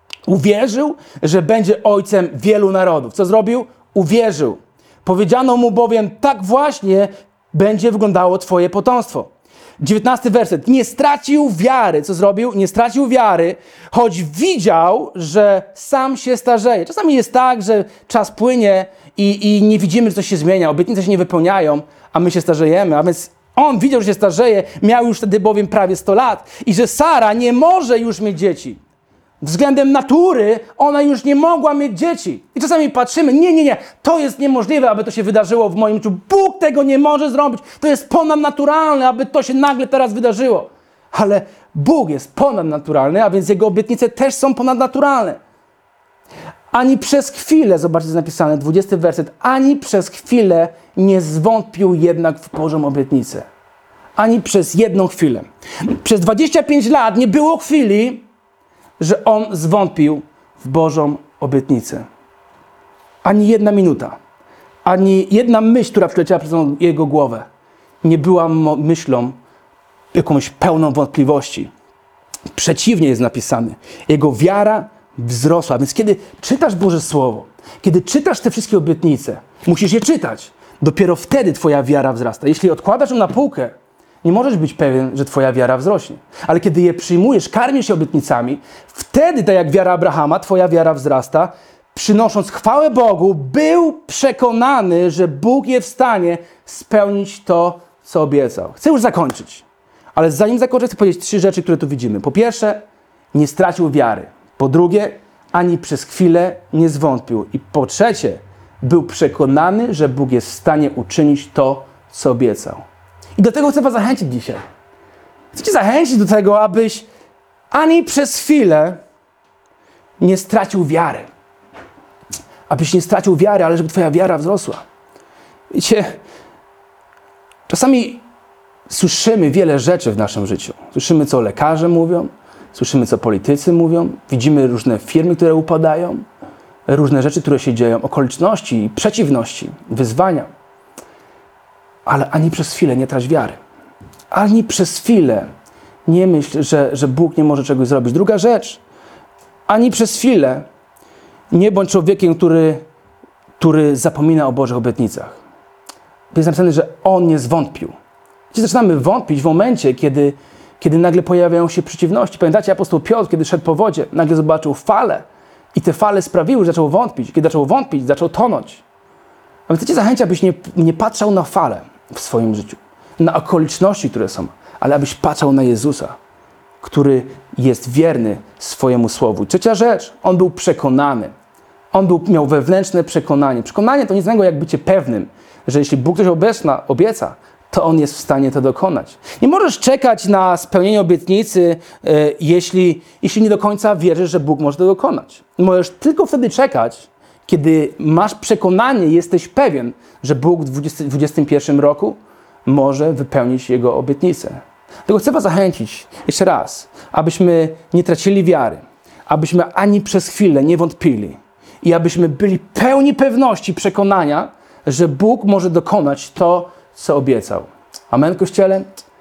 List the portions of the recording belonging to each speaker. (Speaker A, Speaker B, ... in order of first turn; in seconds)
Speaker A: 0.3-28.8, 29.4-45.4, 46.7-53.5, 54.2-58.2, 59.0-62.0, 63.2-64.2, 64.8-67.5, 68.0-69.3, 70.1-71.7, 72.5-102.8, 103.3-112.8, 113.4-114.6, 115.5-117.1, 117.7-119.0, 120.2-121.3, 122.7-124.8, 125.7-126.2, 127.7-128.2, 128.9-136.2, 136.9-140.5, 142.1-143.6, 144.3-145.5, 146.1-148.8, 149.7-150.7, 151.5-152.8, 153.6-155.4, 156.3-157.9, 158.5-168.8, 169.7-176.2, 176.8-181.3, 181.9-218.9